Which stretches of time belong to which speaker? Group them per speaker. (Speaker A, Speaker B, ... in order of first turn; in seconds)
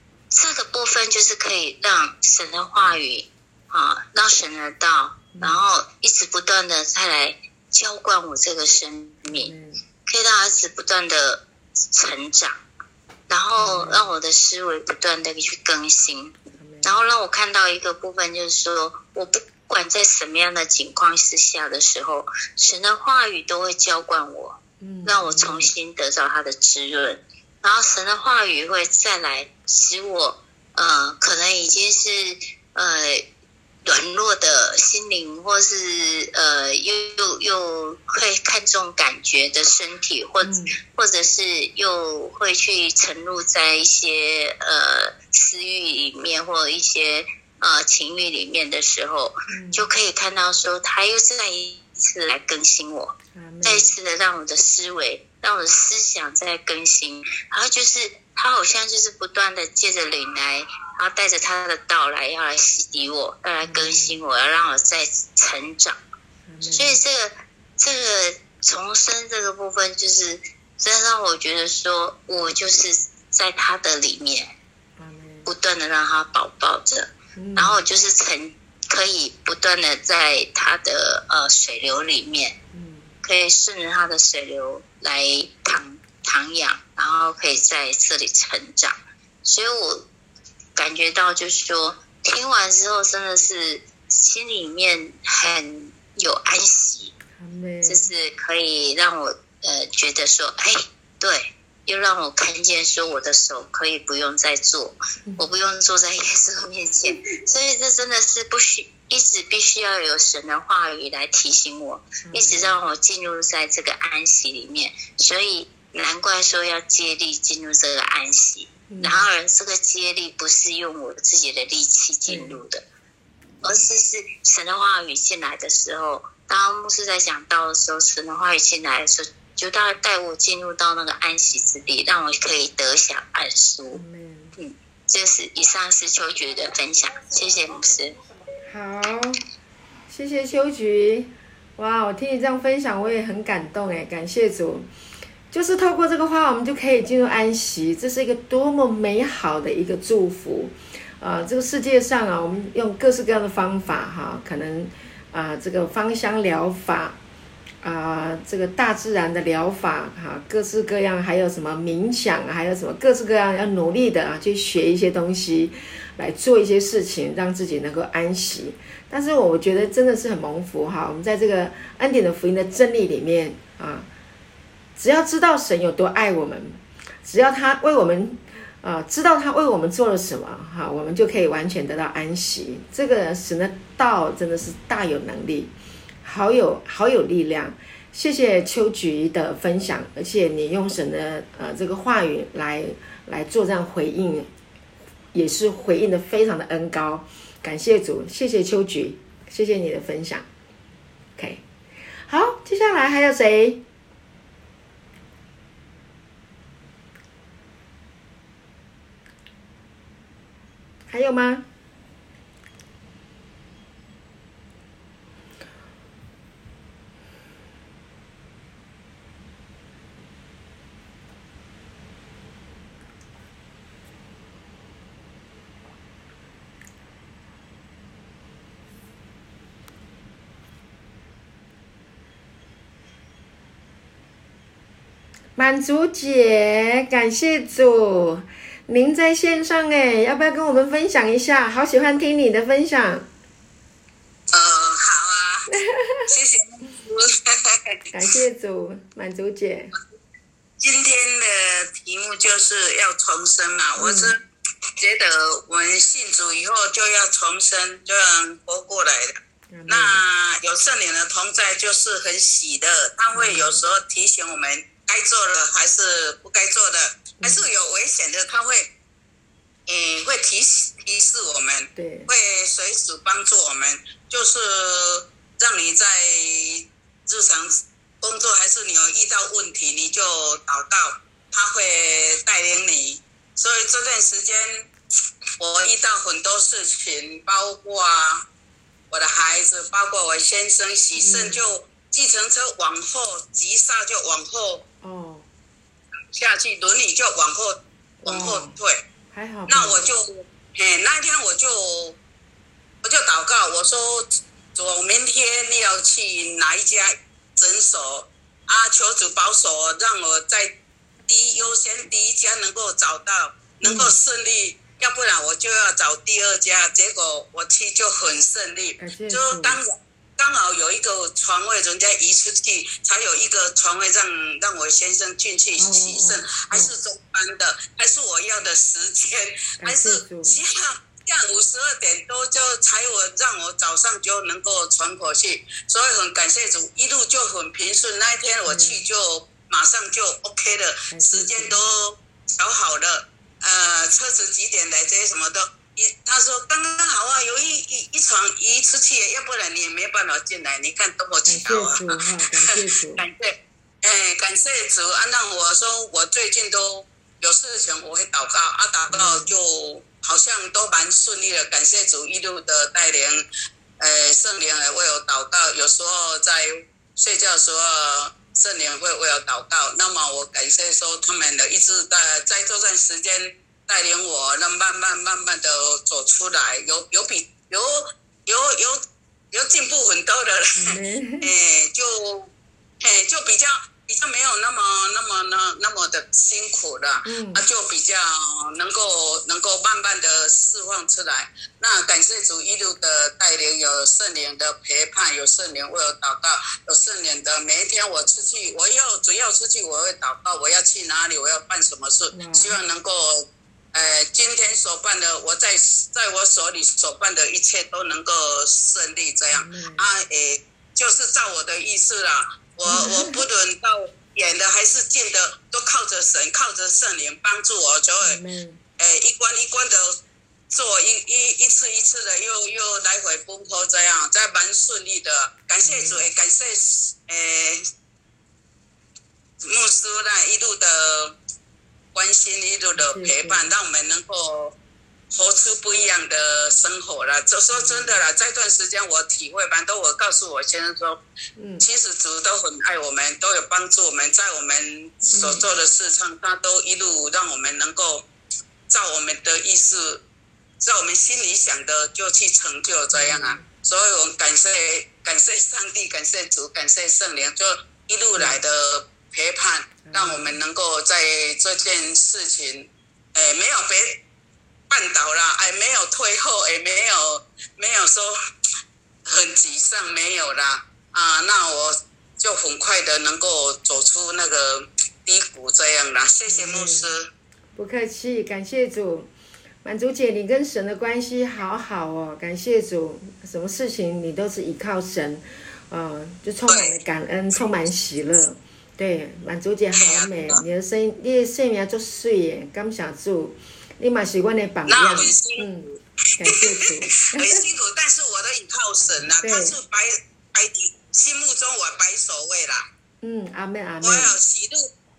Speaker A: 0.3-9.5, 10.1-12.6, 13.3-33.3, 33.9-66.0, 66.6-74.5, 75.5-82.6, 83.2-90.1, 90.8-97.2, 97.8-122.8, 123.6-134.0, 135.1-138.2
Speaker B: 5.3-5.7, 9.3-9.8, 13.6-14.1, 16.6-17.0, 24.8-25.7, 40.4-40.8, 49.5-49.9, 53.4-54.0, 63.6-64.2, 66.5-67.0, 75.0-75.5, 77.4-77.8, 82.7-83.1, 97.4-98.1, 112.2-112.8, 118.9-119.3, 122.3-122.6, 133.9-134.5, 138.7-139.4, 140.1-144.9, 145.5-157.2, 157.8-174.1, 175.0-185.7, 186.2-194.5, 195.3-200.5, 201.4-201.6, 202.3-203.8, 211.1-211.7, 235.6-243.3, 245.7-246.2, 248.1-249.9, 254.0-254.3, 259.7-260.2, 263.3-263.9, 267.4-267.7, 271.9-272.3, 291.2-291.6, 295.0-295.5, 298.2-298.8, 299.3-300.1, 313.8-314.2, 319.0-319.8, 325.8-326.9, 329.8-330.6, 338.6-339.1, 341.1-341.8, 351.5-353.3, 359.1-359.5, 380.8-381.5, 387.3-387.7, 402.3-402.8, 409.5-410.1, 412.9-413.4, 418.2-418.8, 425.8-426.3, 433.0-433.7, 437.7-438.2, 441.6-441.9, 445.3-445.7, 453.1-453.7, 458.4-458.6, 460.0-460.6, 476.5-477.1, 477.8-479.3, 479.8-497.6, 499.4-499.8, 503.2-504.3
Speaker C: 244.5-245.7, 246.3-248.0, 250.8-254.4, 255.0-268.9, 269.9-284.9, 285.6-288.5, 289.1-294.9, 296.3-299.0, 299.7-302.2, 303.0-310.8, 311.3-352.2, 352.8-363.4, 364.0-379.0, 379.5-382.5, 383.0-418.4, 419.0-427.9, 429.6-431.4, 432.1-434.8, 435.3-441.2, 441.8-448.3, 448.9-450.2, 450.8-464.2, 464.9-468.4, 469.3-477.3, 486.7-487.0, 489.9-490.6, 494.9-502.9, 504.0-504.9